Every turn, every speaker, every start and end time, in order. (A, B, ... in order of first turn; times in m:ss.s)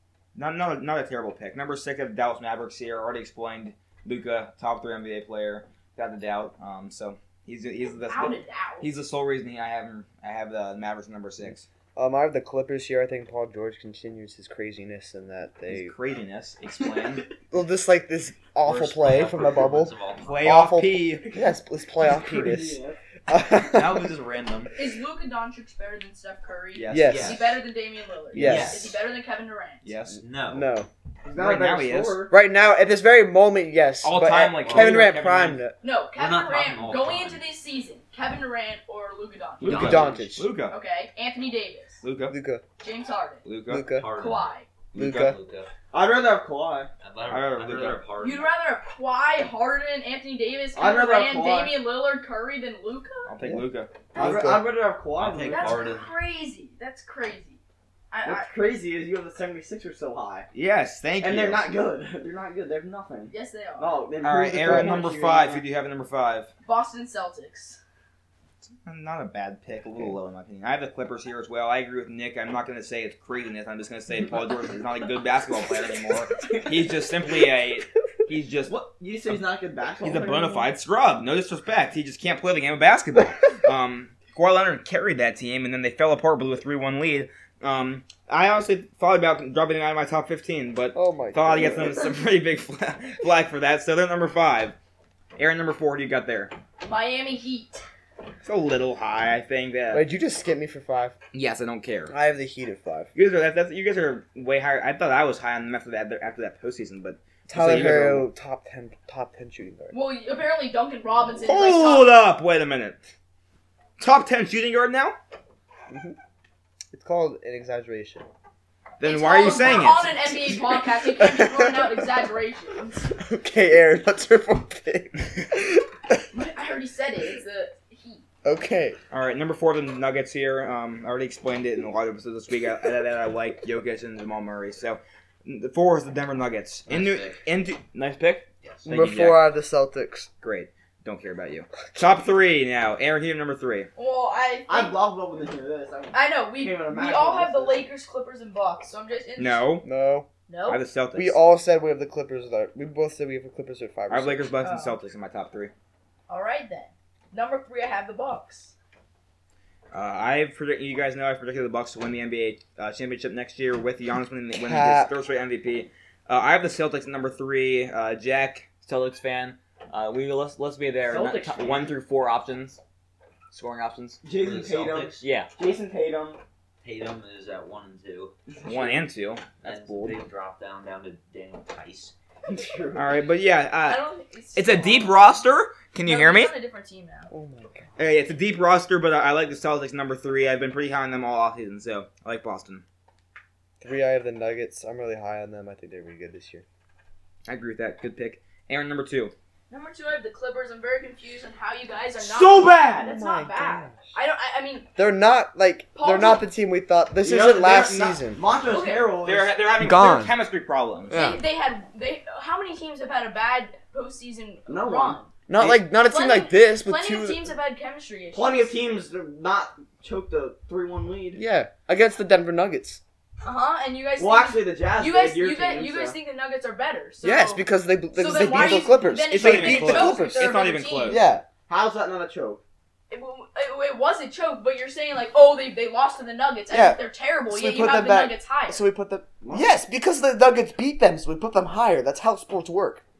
0:00.3-0:11.6 A
0:08.0-0:08.9 B
0:11.9-0:15.9 C
0:15.7-0:17.2 A
0:17.5-0:24.1 C
0:18.6-0:20.5 D
0:20.2-0:21.2 A
0:22.0-0:23.0 E
0:23.6-0:24.7 A
0:24.8-0:29.9 B
0:26.7-0:27.2 A
0:26.9-0:27.4 C
0:27.0-0:27.5 D
0:28.3-0:28.9 C
0:28.4-0:28.9 D
0:29.8-0:30.2 A
0:30.1-0:30.7 D
0:30.5-0:30.9 C
0:31.2-0:32.3 E
0:31.3-0:32.3 A
0:32.3-0:35.7 C
0:34.0-0:35.6 A
0:34.6-0:35.0 D
0:35.8-0:39.8 B
0:36.1-0:37.4 D
0:39.6-0:40.3 D
0:39.6-0:40.5 C
0:39.6-0:40.8 A
0:40.7-0:42.0 B
0:42.0-0:42.3 A
0:42.3-0:42.6 C
0:42.8-0:43.4 B
0:43.4-0:43.8 A
0:43.7-0:44.1 C
0:43.8-0:45.7 D
0:44.1-0:44.7 B
0:44.9-0:45.4 C
0:45.9-0:46.9 E
0:47.0-0:48.5 D
0:47.3-0:48.0 A
0:48.2-0:53.3 B
0:50.7-0:51.8 E
0:53.2-0:53.9 A
0:54.1-0:54.7 C
0:54.2-0:55.9 E
0:55.1-0:56.1 D
0:55.5-0:57.6 B
0:58.1-0:58.5 B
0:58.2-1:00.5 E
1:00.5-1:01.7 A
1:01.2-1:05.6 E
1:03.3-1:04.0 B
1:04.2-1:06.5 A
1:04.4-1:05.1 C
1:06.6-1:07.8 B
1:08.6-1:18.7 A
1:18.6-1:20.6 E
1:20.0-1:34.7 A
1:30.9-1:32.0 C
1:35.4-1:36.5 A
1:36.8-1:37.8 B
1:38.4-1:40.0 A
1:39.9-1:41.1 C
1:41.3-1:42.1 A
1:42.1-1:43.1 C
1:43.1-1:48.3 A
1:47.5-1:50.0 C
1:49.9-1:52.2 B
1:51.4-1:53.0 A
1:54.0-1:55.2 A
1:55.9-1:56.2 C
1:56.9-1:58.2 C
1:59.0-2:00.2 A
1:59.0-2:03.0 B
2:00.4-2:02.1 C
2:03.1-2:06.2 C
2:06.3-2:08.2 B
2:08.4-2:09.0 C
2:09.1-2:19.5 A
2:16.9-2:17.4 D
2:18.8-2:20.3 C
2:20.4-2:23.9 A
2:24.0-2:25.0 B
2:24.7-2:27.8 E
2:26.1-2:29.6 B
2:29.4-2:29.8 A
2:29.8-2:30.3 C
2:30.5-2:30.8 B
2:30.6-2:31.4 A
2:31.1-2:34.5 C
2:34.1-2:35.7 A
2:34.6-2:35.0 B
2:36.3-2:38.7 B
2:39.9-2:52.8 A
2:44.6-2:45.1 C
2:51.0-2:51.9 D
2:53.5-2:54.2 A
2:54.2-2:56.4 E
2:54.4-2:55.2 D
2:55.2-2:55.5 A
2:56.8-2:58.3 D
2:58.6-3:00.2 A
2:59.6-3:02.1 D
3:02.5-3:03.2 E
3:02.9-3:04.0 A
3:03.8-3:05.4 B
3:04.5-3:06.5 A
3:06.0-3:07.3 B
3:07.3-3:07.9 C
3:08.0-3:12.8 A
3:13.8-3:16.6 C
3:17.4-3:19.3 A
3:19.7-3:24.9 B
3:22.2-3:23.1 A
3:23.0-3:24.1 C
3:25.0-3:28.4 C
3:25.9-3:26.4 B
3:27.2-3:29.5 E
3:28.6-3:29.1 B
3:29.2-3:31.2 A
3:29.8-3:30.3 C
3:31.1-3:31.4 C
3:31.1-3:35.3 B
3:34.7-3:35.2 E
3:35.5-3:37.4 C
3:35.6-3:35.8 A
3:35.9-3:38.7 B
3:38.3-3:41.4 E
3:41.3-3:43.0 C
3:43.4-3:51.2 B
3:44.2-3:46.2 E
3:47.2-3:51.4 C
3:49.3-3:51.2 A
3:51.6-3:52.6 E
3:53.1-3:58.8 B
3:56.7-4:03.0 C
3:59.4-3:59.7 E